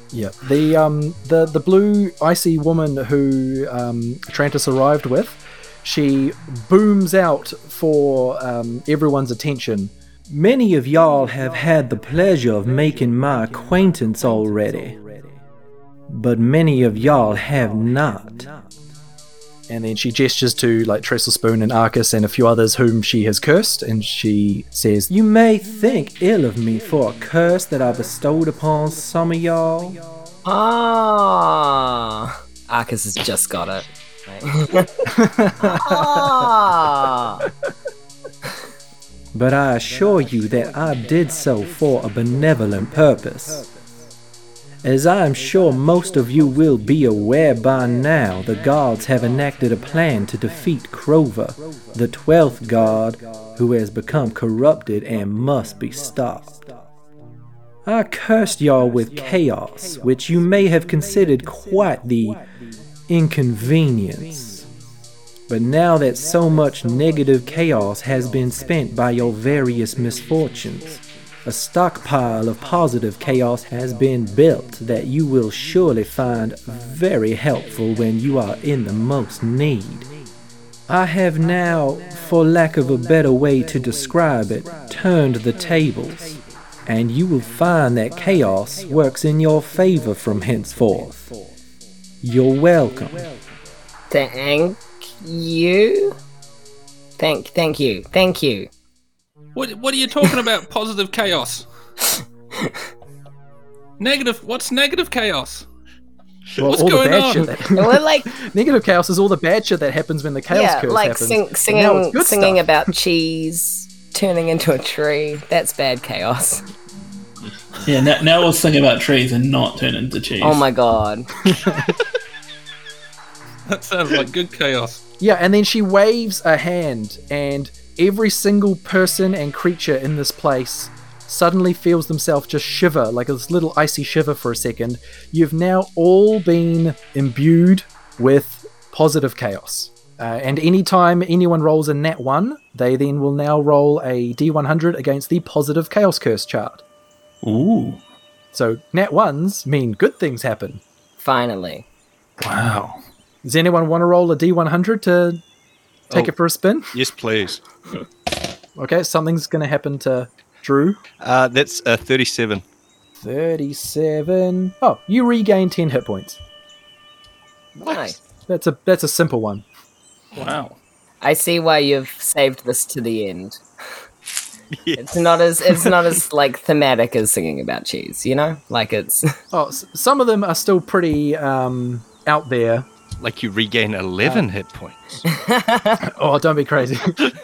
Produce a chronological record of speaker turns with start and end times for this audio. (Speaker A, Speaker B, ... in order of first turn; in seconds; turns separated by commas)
Speaker A: 0.1-9.9, Speaker B: 10.3-15.3, Speaker B: 16.1-18.6, Speaker A: 19.7-25.1, Speaker B: 25.1-30.0, Speaker C: 30.4-34.9, Speaker A: 35.1-36.0, Speaker C: 35.6-37.5, Speaker B: 39.3-43.7, Speaker B: 44.8-56.7, Speaker B: 57.9-62.4, Speaker B: 63.1-64.7, Speaker B: 65.5-80.1, Speaker B: 80.9-91.3, Speaker B: 92.2-93.3, Speaker C: 94.1-96.2, Speaker C: 97.2-98.7, Speaker D: 99.6-101.7, Speaker D: 104.0-105.7, Speaker D: 106.6-107.6, Speaker A: 106.6-112.7, Speaker C: 107.8-108.3, Speaker C: 110.5-116.6, Speaker E: 117.8-120.6, Speaker C: 120.4-121.3, Speaker A: 121.5-121.9, Speaker D: 123.7-125.0, Speaker A: 125.2-146.8, Speaker D: 147.4-148.0, Speaker A: 148.5-150.8, Speaker C: 151.2-151.8, Speaker D: 152.4-153.0, Speaker A: 153.4-155.4, Speaker A: 156.1-156.9, Speaker F: 156.9-157.6, Speaker A: 158.8-161.0, Speaker F: 161.2-162.6, Speaker A: 163.2-166.4, Speaker F: 167.8-168.2, Speaker C: 167.9-168.2, Speaker A: 168.5-169.7, Speaker D: 170.4-170.8, Speaker C: 171.2-173.6, Speaker F: 174.7-175.9, Speaker C: 175.0-179.4, Speaker A: 179.5-182.9, Speaker F: 183.2-185.2, Speaker C: 185.3-186.0, Speaker A: 186.0-187.2